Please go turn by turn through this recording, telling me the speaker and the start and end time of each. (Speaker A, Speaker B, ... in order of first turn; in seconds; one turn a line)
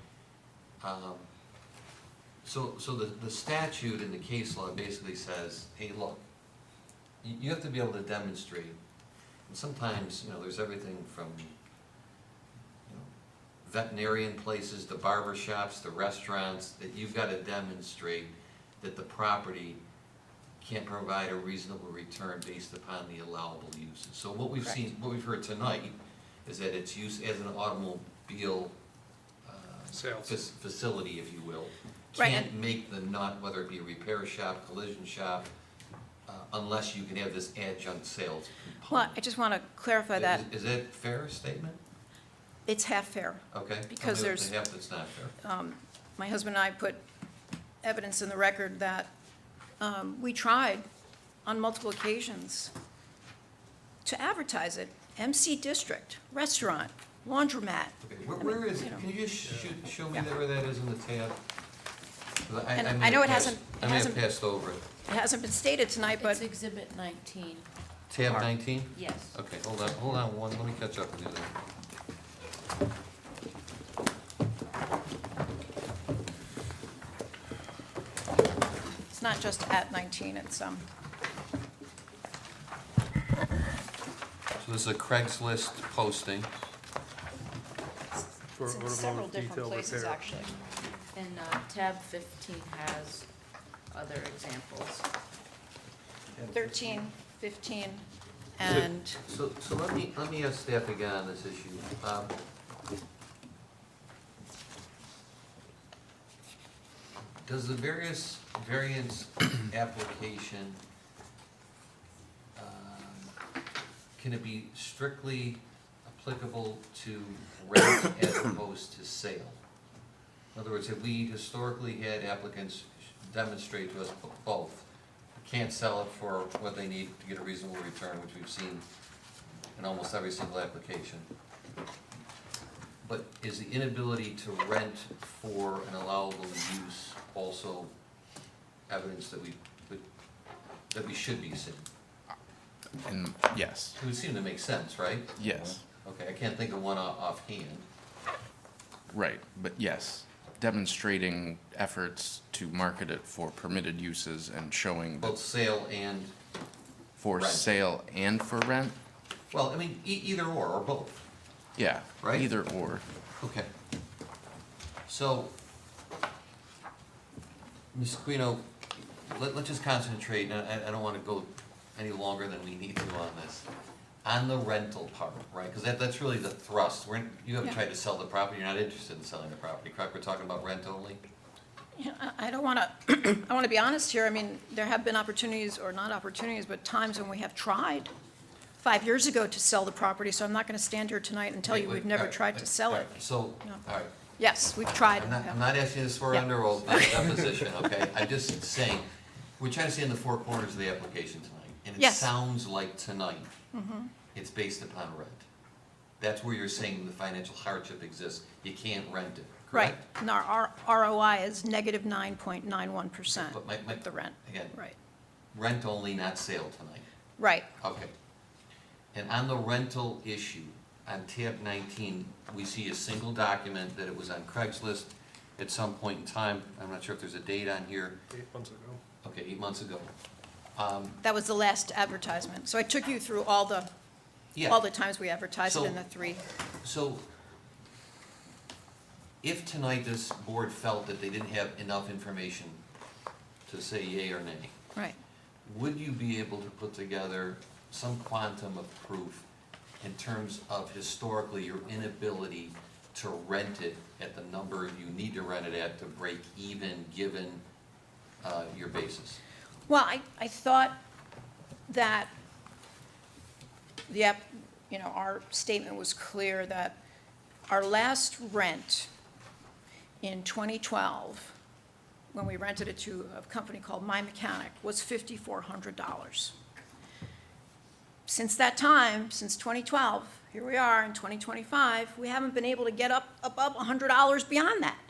Speaker A: 0.8-1.3
Speaker A: 2.4-6.2
Speaker A: 7.2-8.8
Speaker A: 9.5-11.6
Speaker A: 12.9-13.1
Speaker A: 13.6-19.8
Speaker A: 20.6-28.8
Speaker A: 29.4-35.5
Speaker B: 29.9-30.4
Speaker C: 32.2-32.5
Speaker A: 36.3-39.2
Speaker C: 38.9-40.4
Speaker A: 40.1-41.8
Speaker C: 42.7-44.5
Speaker A: 43.5-45.4
Speaker C: 45.4-47.0
Speaker C: 47.8-49.1
Speaker C: 49.8-50.9
Speaker C: 51.5-52.7
Speaker C: 54.0-59.0
Speaker A: 58.0-61.4
Speaker B: 59.4-59.8
Speaker A: 62.5-64.8
Speaker C: 62.8-64.2
Speaker C: 65.0-66.4
Speaker D: 66.1-67.7
Speaker A: 68.1-71.5
Speaker D: 68.9-69.4
Speaker C: 79.1-80.9
Speaker A: 84.6-86.5
Speaker B: 88.5-90.2
Speaker C: 88.7-90.5
Speaker D: 91.1-93.3
Speaker D: 93.9-95.1
Speaker C: 96.5-99.2
Speaker A: 98.7-102.3
Speaker A: 107.4-110.8
Speaker A: 112.6-113.3
Speaker A: 114.2-119.6
Speaker A: 120.5-128.8
Speaker A: 129.8-131.3
Speaker A: 133.0-137.9
Speaker A: 138.9-140.1
Speaker A: 140.9-141.9
Speaker E: 143.0-144.0
Speaker A: 144.0-147.9
Speaker E: 145.4-145.8
Speaker E: 149.1-155.4
Speaker A: 155.2-156.3
Speaker E: 157.2-159.0
Speaker A: 157.4-157.7
Speaker A: 159.5-161.2
Speaker E: 161.8-163.1
Speaker A: 162.2-162.5
Speaker A: 163.4-163.7
Speaker A: 165.1-165.5
Speaker A: 167.9-173.7
Speaker A: 174.2-181.2
Speaker C: 182.0-188.1
Speaker C: 188.8-193.8
Speaker A: 191.7-194.1
Speaker C: 194.4-195.6
Speaker A: 195.0-199.1
Speaker C: 196.3-197.3
Speaker A: 199.6-203.5
Speaker C: 202.0-202.3
Speaker C: 203.7-204.1
Speaker A: 204.3-205.5
Speaker A: 206.2-210.0
Speaker C: 209.7-214.9
Speaker A: 213.3-214.8
Speaker A: 215.5-217.1
Speaker C: 217.4-217.7
Speaker A: 217.8-218.1
Speaker A: 219.1-228.2
Speaker B: 228.3-229.0
Speaker A: 229.2-230.1
Speaker A: 230.8-231.2
Speaker C: 231.2-233.9
Speaker A: 234.6-234.8
Speaker C: 234.7-236.4
Speaker A: 235.7-236.0
Speaker A: 236.8-237.2
Speaker A: 239.4-242.8
Speaker A: 243.7-244.8
Speaker A: 245.7-249.5
Speaker A: 250.0-257.6
Speaker A: 258.4-259.4
Speaker C: 259.9-261.0
Speaker C: 261.9-262.3
Speaker C: 264.1-267.0
Speaker C: 267.7-269.1
Speaker C: 270.2-271.6
Speaker C: 272.3-276.5
Speaker C: 278.3-285.0